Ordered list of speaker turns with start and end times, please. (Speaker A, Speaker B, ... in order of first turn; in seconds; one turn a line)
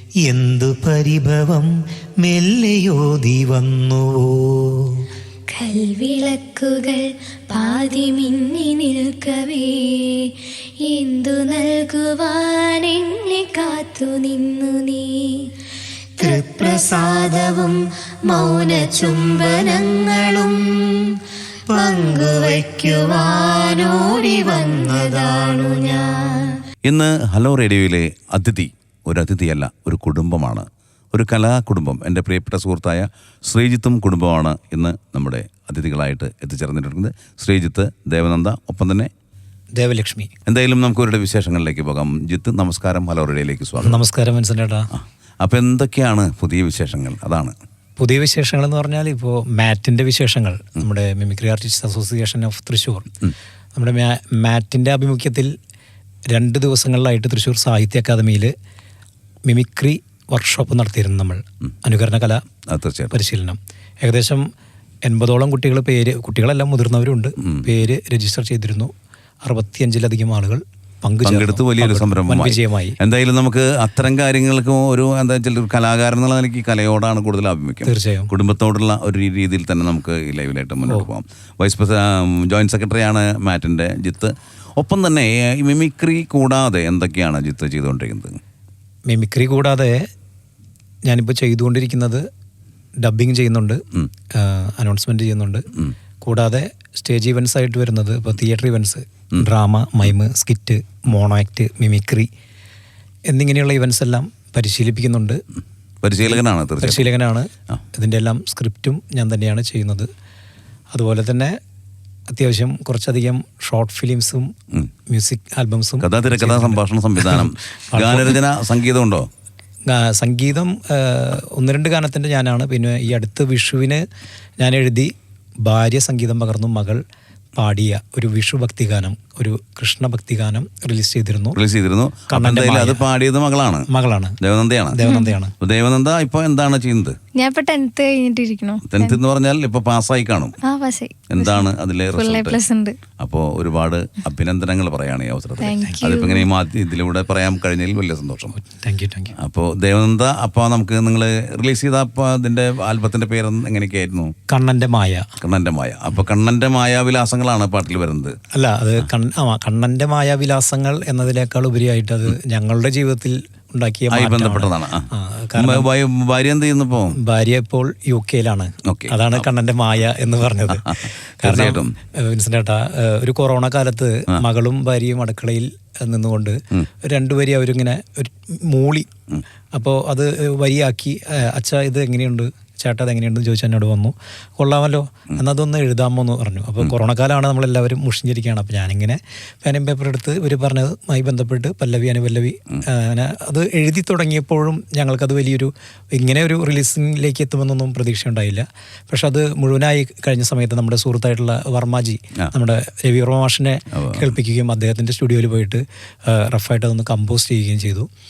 Speaker A: 0.3-5.0
Speaker B: 5.5-15.5
Speaker B: 16.2-20.7
Speaker B: 21.7-26.5
Speaker C: 26.9-39.1
Speaker A: 39.8-40.3
Speaker C: 40.5-44.0
Speaker A: 43.8-44.9
Speaker C: 45.0-47.5
Speaker A: 48.0-53.1
Speaker A: 53.8-55.5
Speaker A: 56.3-58.5
Speaker A: 59.5-62.4
Speaker C: 62.7-63.2
Speaker A: 63.1-64.4
Speaker A: 65.1-68.9
Speaker C: 67.4-67.7
Speaker A: 69.4-73.0
Speaker C: 71.2-88.4
Speaker A: 77.8-78.3
Speaker A: 89.1-90.0
Speaker A: 91.1-92.2
Speaker A: 93.0-93.8
Speaker A: 94.3-95.7
Speaker A: 96.2-102.3
Speaker A: 103.3-105.4
Speaker C: 106.0-107.1
Speaker A: 106.3-110.1
Speaker A: 110.9-111.6
Speaker A: 112.3-114.5
Speaker A: 115.1-118.4
Speaker C: 116.0-119.3
Speaker A: 119.9-124.0
Speaker A: 124.6-125.1
Speaker A: 125.7-127.0
Speaker A: 127.6-131.6
Speaker C: 131.6-133.9
Speaker A: 132.3-133.1
Speaker A: 133.9-134.4
Speaker C: 134.4-135.0
Speaker A: 134.9-135.5
Speaker D: 135.0-135.3
Speaker C: 135.6-137.2
Speaker D: 137.3-139.2
Speaker C: 138.9-140.6
Speaker D: 140.6-143.0
Speaker C: 141.3-142.6
Speaker C: 143.2-148.6
Speaker D: 145.6-146.5
Speaker A: 148.5-149.3
Speaker C: 149.4-154.3
Speaker A: 154.5-155.3
Speaker C: 155.4-158.4
Speaker A: 158.5-165.9
Speaker C: 164.1-167.2
Speaker A: 167.2-179.1
Speaker C: 168.9-169.4
Speaker C: 170.8-171.9
Speaker A: 179.8-208.1
Speaker C: 203.9-204.3